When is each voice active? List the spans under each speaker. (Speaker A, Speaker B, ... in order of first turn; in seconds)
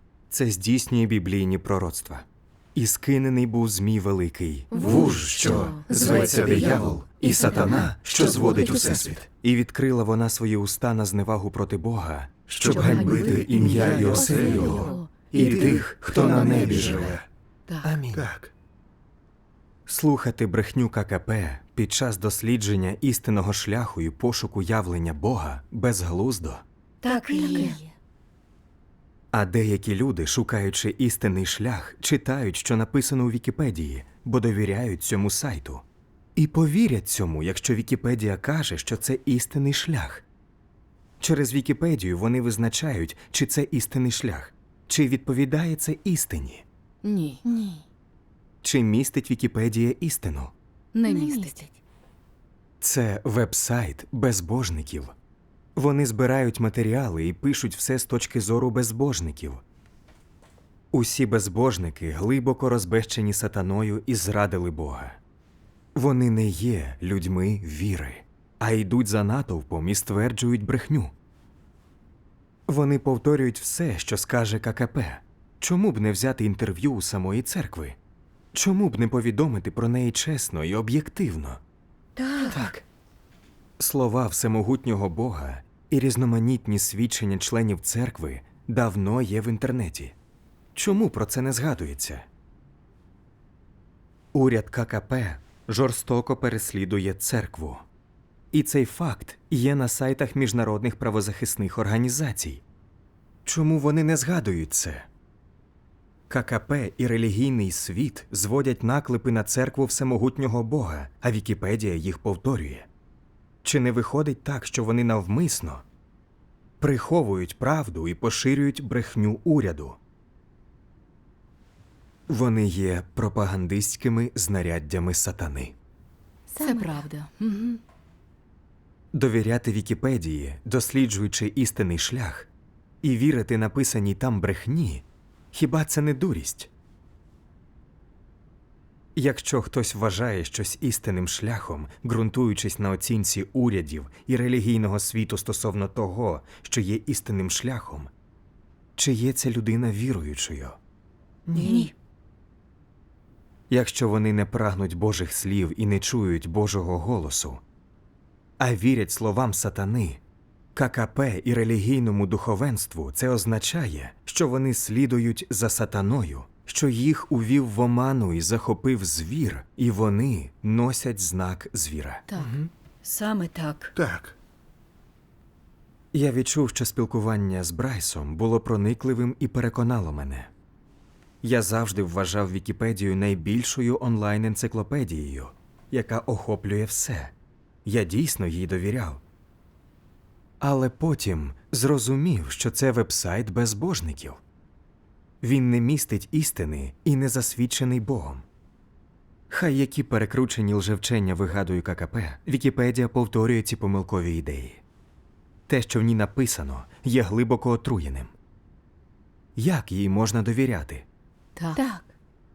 Speaker A: 0.3-17.2, 17.8-18.3, 19.9-26.6, 29.3-35.8, 36.4-40.2, 41.2-46.6, 48.6-50.5, 52.8-55.1, 55.8-59.6, 60.9-65.2, 65.9-71.1, 72.7-78.0, 78.5-81.6, 82.5-82.8, 83.8-90.1, 90.7-92.2, 94.3-97.8, 98.5-102.6, 103.4-105.1, 106.3-112.9, 113.6-115.8, 116.8-120.0, 122.3-125.7, 129.1-132.5, 133.0-136.7, 139.1-148.1, 149.0-150.8, 151.5-151.9, 153.7-157.6, 158.6-160.2, 160.7-172.6, 176.1-180.5, 181.4-187.3, 187.8-189.2, 190.6-194.4, 195.4-198.4, 199.5-204.8, 205.7-208.3, 209.6-211.1
Speaker B: 4.7-6.5, 12.8-15.6, 16.6-17.0, 17.7-18.0, 27.0-27.9, 47.0-47.8, 50.9-51.7, 126.5-127.8, 151.6-151.9, 172.3-172.6, 211.6-212.1
Speaker C: 5.9-6.5, 27.0-27.8, 51.0-51.6, 82.2-82.7, 126.6-127.0, 151.5-151.9, 173.0-173.9
Speaker D: 12.5-14.7, 15.4-17.2, 18.1-18.5, 173.9-174.3